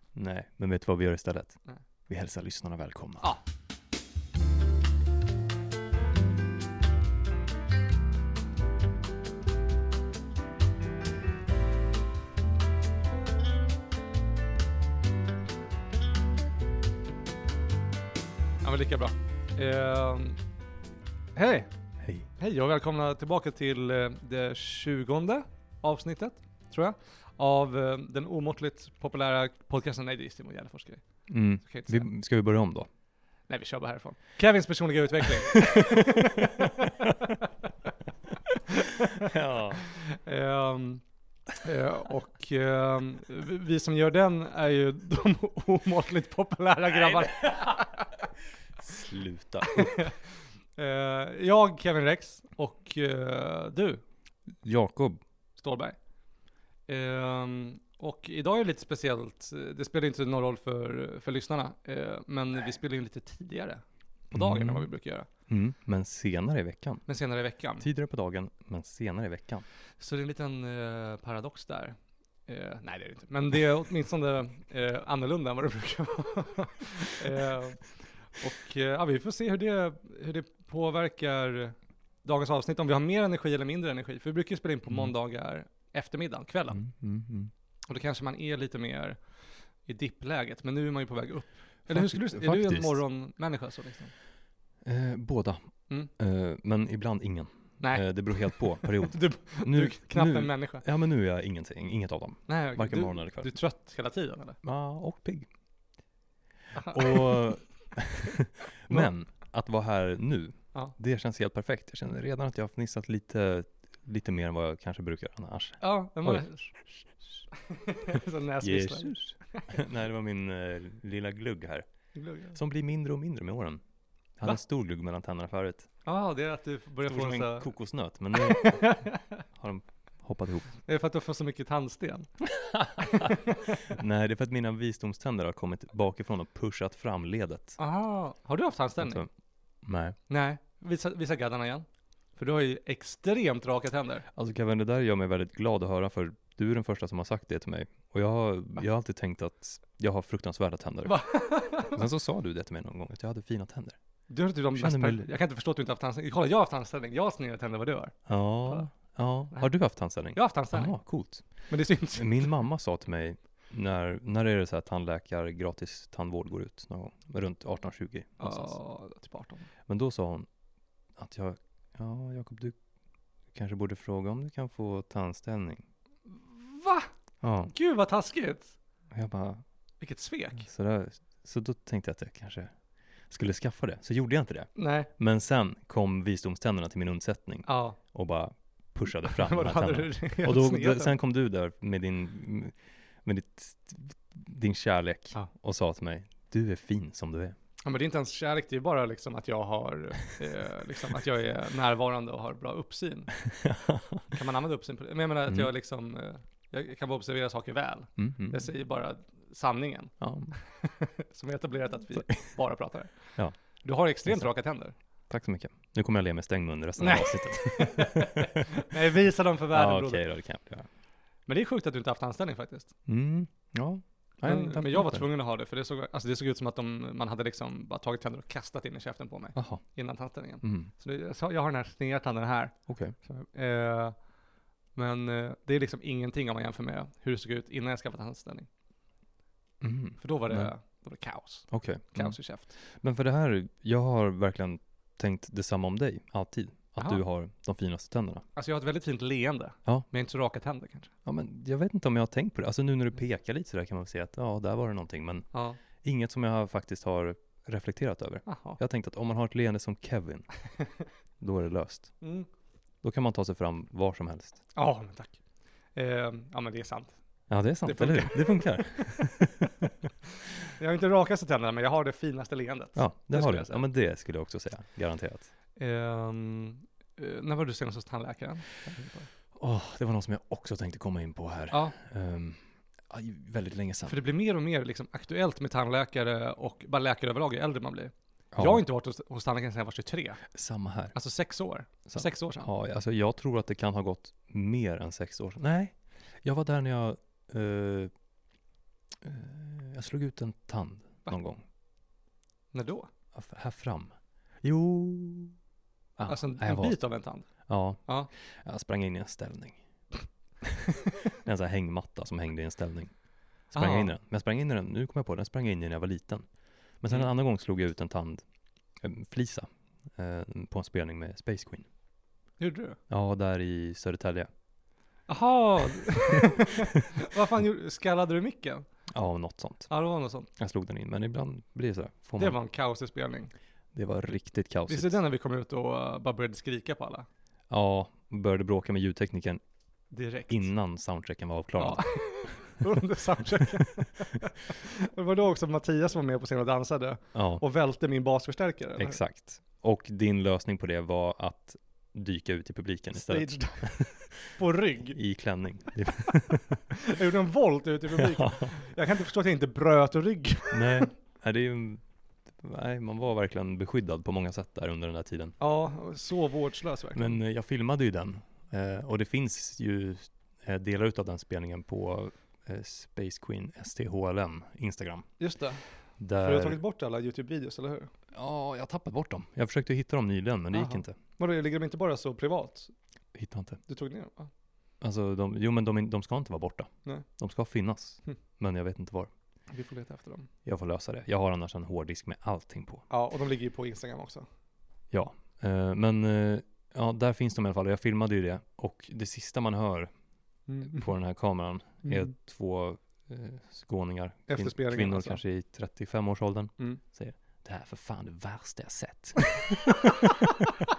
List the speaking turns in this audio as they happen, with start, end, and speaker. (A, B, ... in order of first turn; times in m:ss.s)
0:00.1-0:01.6 A
0:02.1-0:03.4 A
0:18.6-0:20.4 B
0:21.3-0:21.7 B
0:22.0-0:22.3 A
0:22.4-0:31.0 B
0:31.3-0:32.9 A
0:31.6-0:32.0 B
0:33.5-0:37.5 B
0:35.5-0:37.3 A
0:38.4-0:41.0 B
0:38.9-0:39.9 A
0:41.6-0:48.2 B
0:47.1-0:47.8 A
0:48.8-0:50.1 A
0:49.6-0:50.2 B
0:50.8-0:54.0 B
0:54.6-0:55.2 A
0:55.6-0:56.0 B
0:56.9-1:05.3 B
1:04.3-1:04.9 A
1:05.5-1:07.0 A
1:07.1-1:07.8 B
1:07.8-1:09.6 A
1:10.0-1:26.8 B
1:26.7-1:27.5 A
1:27.9-1:29.2 B
1:29.8-1:34.1 B
1:31.9-1:33.0 A
1:34.8-1:43.5 A
1:37.8-1:40.8 B
1:42.5-1:44.6 B
1:44.6-1:45.5 A
1:46.8-1:56.4 A
1:46.8-1:47.2 B
1:55.8-1:56.7 B
1:57.5-1:59.7 B
1:58.6-2:01.8 A
2:02.1-2:02.6 B
2:02.5-2:03.8 A
2:04.4-2:05.9 A
2:06.0-2:07.7 B
2:07.0-2:09.0 A
2:08.3-2:09.4 B
2:09.5-2:10.7 A
2:10.8-2:12.3 B
2:12.5-2:17.8 A
2:13.0-2:13.8 B
2:17.8-2:19.2 B
2:19.0-2:19.3 A
2:19.8-2:20.2 A
2:20.3-2:24.2 B
2:24.3-2:34.0 A
2:31.0-2:32.0 B
2:34.3-2:38.8 B
2:34.7-2:35.3 A
2:38.3-2:41.5 A
2:40.3-2:40.9 B
2:41.7-2:42.5 B
2:42.1-2:48.8 A
2:48.4-2:49.7 B
2:49.9-2:50.5 A
2:51.2-2:52.8 A
2:53.5-2:55.8 A
2:56.3-2:57.1 B
2:57.4-2:57.7 A
2:57.7-2:58.7 B
2:59.1-2:59.6 A
3:00.0-3:00.6 B
3:00.6-3:02.7 A
3:03.3-3:17.6 A
3:04.8-3:05.1 B
3:07.6-3:08.0 B
3:09.2-3:11.1 B
3:17.8-3:23.3 B
3:23.4-3:24.3 A
3:24.3-3:34.9 B
3:28.2-3:28.7 A
3:30.2-3:30.6 A
3:32.2-3:32.5 A
3:35.3-3:38.9 A
3:37.0-3:40.2 B
3:39.7-3:40.8 A
3:41.5-3:42.9 B
3:43.1-3:45.2 A
3:44.4-3:54.2 B
3:49.5-3:49.8 A
3:50.6-3:50.9 A
3:52.9-3:53.1 A
3:54.9-3:58.7 B
3:59.8-4:00.7 A
4:00.2-4:02.7 B
4:01.7-4:08.4 A
4:08.6-4:11.1 B
4:11.2-4:15.5 A
4:15.5-4:15.8 B
4:16.0-4:20.5 A
4:18.4-4:18.8 B
4:21.4-4:22.2 A
4:22.2-4:22.5 B
4:23.0-4:24.6 A
4:24.7-4:25.4 B
4:25.9-4:27.2 B
4:27.5-4:29.9 A
4:27.8-4:29.5 B
4:30.7-4:33.8 B
4:32.9-4:35.5 A
4:35.8-4:39.3 B
4:39.6-4:44.2 A
4:44.1-4:50.4 B
4:48.5-4:48.8 A
4:50.5-4:51.1 A
4:51.1-4:52.7 B
4:52.1-4:58.1 A
4:59.2-5:01.6 A
5:02.7-5:03.1 B
5:03.3-5:05.6 A
5:06.2-5:09.8 A
5:06.3-5:08.3 B
5:11.4-5:13.2 A
5:13.7-5:16.5 A
5:13.7-5:14.1 B
5:17.0-5:18.4 A
5:19.0-5:21.9 A
5:22.6-5:23.0 B
5:23.1-5:24.5 A
5:25.3-5:28.8 B
5:29.1-5:29.9 A
5:29.9-5:30.5 B
5:30.6-5:32.6 A
5:32.4-5:33.5 B
5:33.9-5:35.2 A
5:34.9-5:37.3 B
5:37.7-5:39.6 A
5:40.1-5:40.7 B
5:40.5-5:42.8 A
5:41.8-5:49.2 B
5:47.3-5:47.6 A
5:49.0-5:54.5 A
5:53.2-5:55.2 B
5:55.1-5:56.8 A
5:56.9-6:01.1 B
5:58.2-5:58.7 A
6:00.7-6:02.0 A
6:02.6-6:05.6 A
6:05.6-6:07.4 B
6:07.1-6:15.3 A
6:15.4-6:15.8 B
6:16.2-6:16.8 A
6:16.4-6:18.1 B
6:18.3-6:21.2 A
6:20.7-6:22.9 B
6:23.3-6:23.8 A
6:23.9-6:24.5 B
6:25.0-6:29.3 A
6:29.7-6:30.5 B
6:30.6-6:33.1 A
6:33.1-6:34.4 B
6:35.1-6:40.1 A
6:40.7-6:41.1 B
6:40.8-6:50.5 A
6:44.5-6:45.4 B